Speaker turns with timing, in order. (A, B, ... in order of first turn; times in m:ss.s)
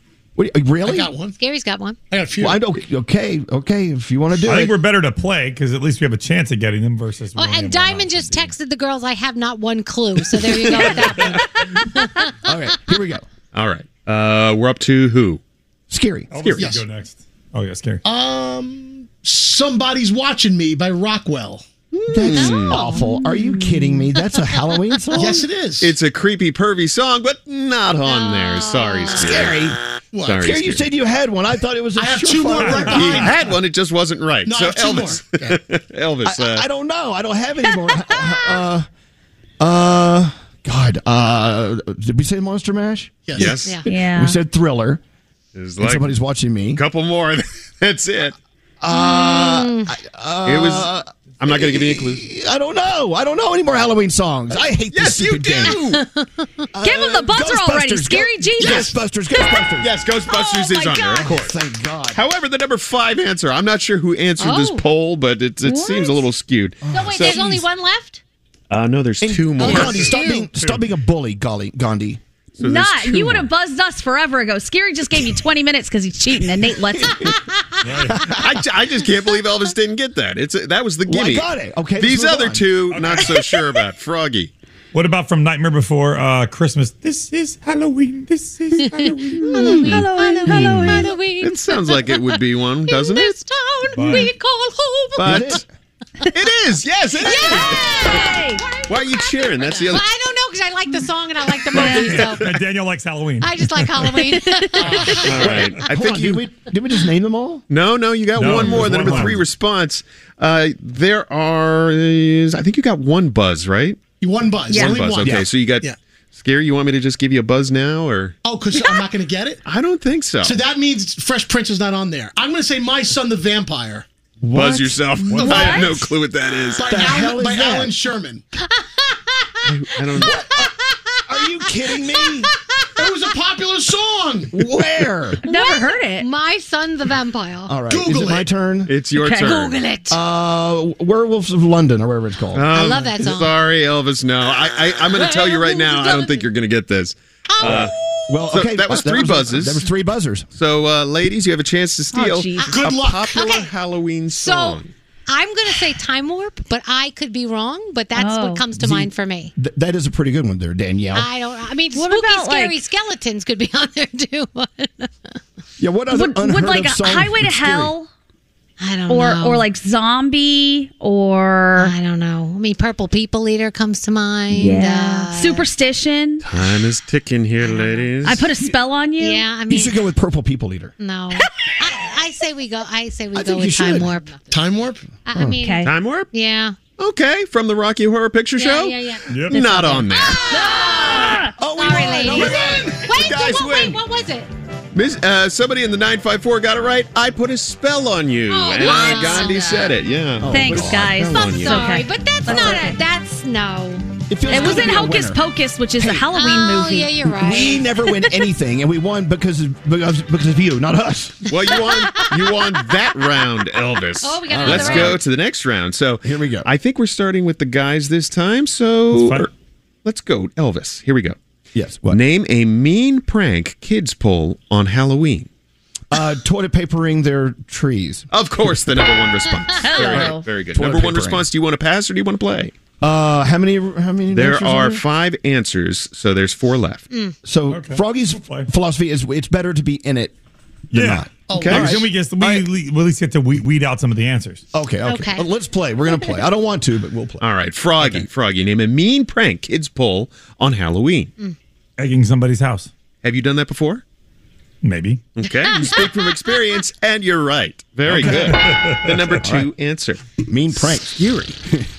0:00.4-0:01.1 A
0:00.8-0:01.3 B
0:01.4-0:02.0 C
0:02.1-0:02.7 B
0:02.4-0:04.7 A
0:04.4-0:08.5 D
0:07.4-0:12.3 C
0:11.0-0:11.4 D
0:12.4-0:13.2 A
0:13.5-0:15.4 E
0:15.9-0:16.4 A
0:16.3-0:18.0 D
0:16.4-0:16.7 E
0:18.0-0:21.6 B
0:21.9-0:22.8 E
0:22.1-0:25.4 A
0:22.3-0:23.0 C
0:25.1-0:25.9 B
0:25.8-0:29.6 E
0:28.1-0:29.4 C
0:29.1-0:29.8 A
0:30.1-0:30.4 B
0:30.2-0:30.9 E
0:30.4-0:33.3 A
0:31.9-0:33.4 B
0:32.6-0:33.2 D
0:32.9-0:36.6 E
0:34.4-0:35.6 B
0:36.2-0:38.9 A
0:39.6-0:45.0 A
0:43.3-0:43.6 B
0:43.3-0:43.8 E
0:43.8-0:44.4 F
0:45.5-0:46.2 E
0:45.8-0:46.8 A
0:46.7-0:48.3 E
0:48.8-0:55.8 A
0:48.9-0:49.9 C
0:50.4-0:52.2 E
0:54.9-0:56.0 E
0:55.7-0:56.3 C
0:56.7-0:59.9 A
0:56.8-0:58.9 F
0:59.8-1:01.6 E
1:00.4-1:01.2 F
1:01.1-1:02.2 A
1:02.1-1:07.6 E
1:04.4-1:04.8 C
1:05.6-1:06.2 F
1:06.8-1:07.4 A
1:06.9-1:08.2 C
1:08.7-1:10.2 E
1:09.2-1:12.2 A
1:09.6-1:10.4 C
1:09.7-1:10.8 D
1:12.6-1:13.5 E
1:12.6-1:17.3 F
1:17.8-1:18.3 D
1:18.3-1:24.5 E
1:21.1-1:22.7 A
1:22.9-1:23.3 D
1:24.9-1:30.1 D
1:28.8-1:35.6 C
1:29.4-1:31.1 F
1:31.4-1:33.4 E
1:33.9-1:34.3 D
1:35.2-1:35.6 E
1:35.2-1:35.6 A
1:36.3-1:38.3 E
1:37.2-1:42.4 C
1:37.2-1:38.6 F
1:38.9-1:40.1 E
1:41.7-1:42.1 F
1:41.7-1:44.2 D
1:43.4-1:45.5 C
1:45.2-1:46.5 E
1:45.4-1:47.6 A
1:47.7-1:54.0 E
1:48.4-1:49.4 D
1:48.7-1:49.2 A
1:54.2-1:56.0 B
1:54.7-1:55.0 F
1:54.7-1:58.4 E
1:55.2-1:55.5 A
1:58.4-1:59.6 B
1:59.6-2:00.6 E
2:00.4-2:04.0 B
2:04.4-2:05.9 A
2:04.5-2:07.1 E
2:05.3-2:05.7 B
2:05.5-2:06.0 F
2:06.8-2:08.4 B
2:06.8-2:07.9 A
2:08.8-2:09.4 C
2:09.6-2:10.4 E
2:10.1-2:10.7 C
2:10.1-2:10.7 A
2:11.2-2:12.5 A
2:13.0-2:14.5 B
2:14.5-2:15.4 A
2:15.4-2:16.3 F
2:15.5-2:17.7 C
2:17.7-2:18.9 A
2:17.9-2:18.5 B
2:18.8-2:19.8 E
2:19.2-2:19.6 F
2:19.4-2:20.2 C
2:20.1-2:22.8 A
2:22.5-2:27.9 E
2:22.7-2:23.6 C
2:25.1-2:26.4 C
2:27.5-2:28.0 C
2:27.6-2:30.5 A
2:28.4-2:29.9 E
2:30.5-2:34.9 E
2:32.1-2:32.8 F
2:32.6-2:33.4 B
2:33.3-2:33.7 C
2:34.4-2:39.5 C
2:38.2-2:38.6 F
2:38.8-2:41.3 A
2:41.1-2:45.1 C
2:41.9-2:42.8 F
2:45.8-2:47.9 A
2:46.1-2:48.1 F
2:48.8-2:49.6 C
2:49.1-2:51.9 F
2:51.8-2:55.6 C
2:54.5-2:56.4 F
2:56.4-2:58.5 E
2:57.6-2:58.1 C
2:58.2-2:59.5 F
2:59.2-3:00.0 C
2:59.7-3:00.9 A
3:01.0-3:04.6 C
3:03.3-3:04.1 A
3:04.5-3:05.0 B
3:05.2-3:06.8 C
3:05.3-3:05.6 A
3:05.6-3:05.9 F
3:05.8-3:06.3 E
3:07.0-3:10.6 E
3:08.6-3:14.5 C
3:09.3-3:09.6 D
3:10.7-3:11.5 F
3:11.6-3:13.1 A
3:12.3-3:14.0 E
3:14.9-3:21.9 E
3:18.5-3:19.8 C
3:19.0-3:19.3 F
3:20.4-3:21.5 A
3:20.5-3:23.0 F
3:21.5-3:24.0 C
3:22.5-3:22.8 A
3:24.3-3:25.4 A
3:24.5-3:27.2 F
3:24.6-3:24.9 C
3:26.0-3:26.3 A
3:26.3-3:28.2 C
3:27.3-3:31.5 A
3:31.5-3:39.5 E
3:31.8-3:32.2 C
3:34.2-3:35.2 C
3:34.5-3:35.2 A
3:36.2-3:36.7 A
3:39.1-3:39.5 D
3:40.0-3:41.4 E
3:41.7-3:42.2 A
3:42.0-3:45.5 E
3:46.1-3:48.3 A
3:48.3-3:52.7 E
3:49.8-3:50.4 F
3:50.1-3:51.4 A
3:53.0-3:55.0 A
3:54.3-3:57.1 E
3:57.4-4:00.3 A
3:57.7-3:58.7 D
4:00.9-4:04.6 D
4:00.9-4:02.7 A
4:01.5-4:01.8 B
4:01.6-4:02.0 E
4:04.7-4:07.4 A
4:05.0-4:05.4 C
4:07.4-4:11.3 E
4:08.0-4:08.3 A
4:12.0-4:12.9 D
4:13.2-4:14.0 E
4:14.8-4:15.3 D
4:15.3-4:20.2 E
4:15.6-4:16.2 C
4:18.1-4:19.3 D
4:19.4-4:19.7 A
4:20.4-4:21.8 A
4:20.7-4:21.5 E